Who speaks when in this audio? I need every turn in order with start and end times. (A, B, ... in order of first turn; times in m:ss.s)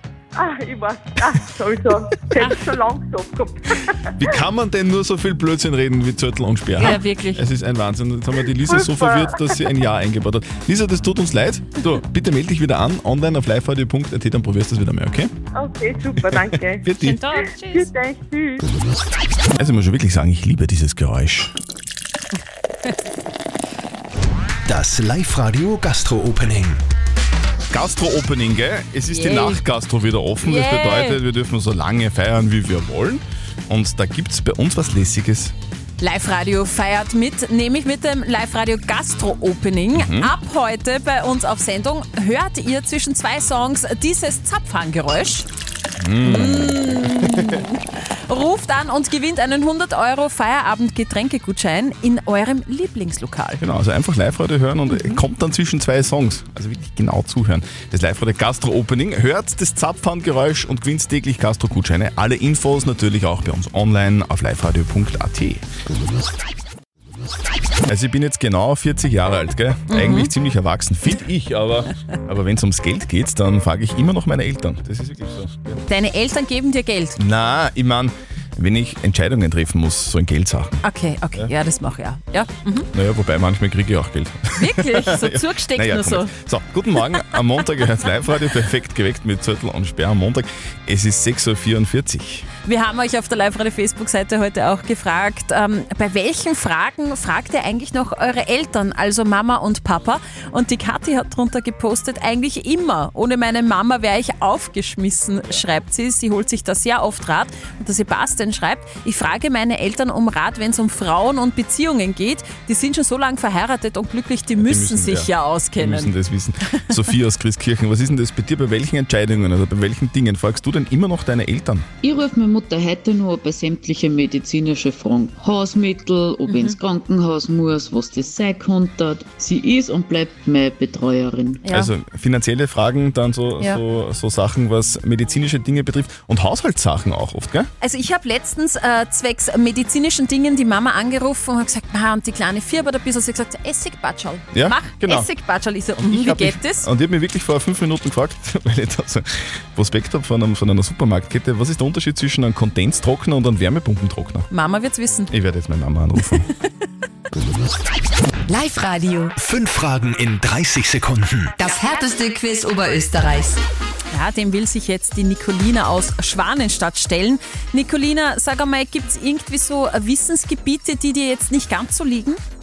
0:00.4-0:01.8 A
0:02.3-0:03.5 A
0:02.4-0:02.6 B
0:04.2-0:15.3 C
0:06.8-0:07.5 B
0:15.6-0:16.8 A
0:16.3-0:17.2 C
0:17.0-0:17.9 B
0:17.8-0:18.6 A
0:19.6-0:21.5 C
0:24.7-0:26.8 D
0:27.7-0:35.6 C
0:29.1-0:29.6 B
0:30.4-0:31.2 B
0:36.0-0:45.5 B
0:39.9-0:40.3 C
0:46.0-0:47.6 C
0:46.2-0:53.6 B
0:53.6-1:05.6 C
0:54.9-0:55.2 B
1:07.9-1:15.8 C
1:09.9-1:10.3 B
1:15.9-1:17.2 B
1:17.2-1:20.7 C
1:20.8-1:22.9 B
1:22.9-1:32.5 C
1:24.6-1:26.3 B
1:32.6-1:56.1 B
1:54.6-2:01.9 C
2:02.0-2:11.6 E
2:06.5-2:06.8 B
2:11.6-2:11.9 B
2:11.7-2:17.7 C
2:17.8-2:26.9 B
2:24.5-2:25.3 C
2:26.0-2:34.5 C
2:34.5-2:35.3 B
2:35.3-2:36.5 C
2:38.5-2:39.3 F
2:39.4-2:41.5 D
2:41.6-2:43.4 F
2:41.6-2:43.5 E
2:44.1-2:52.4 B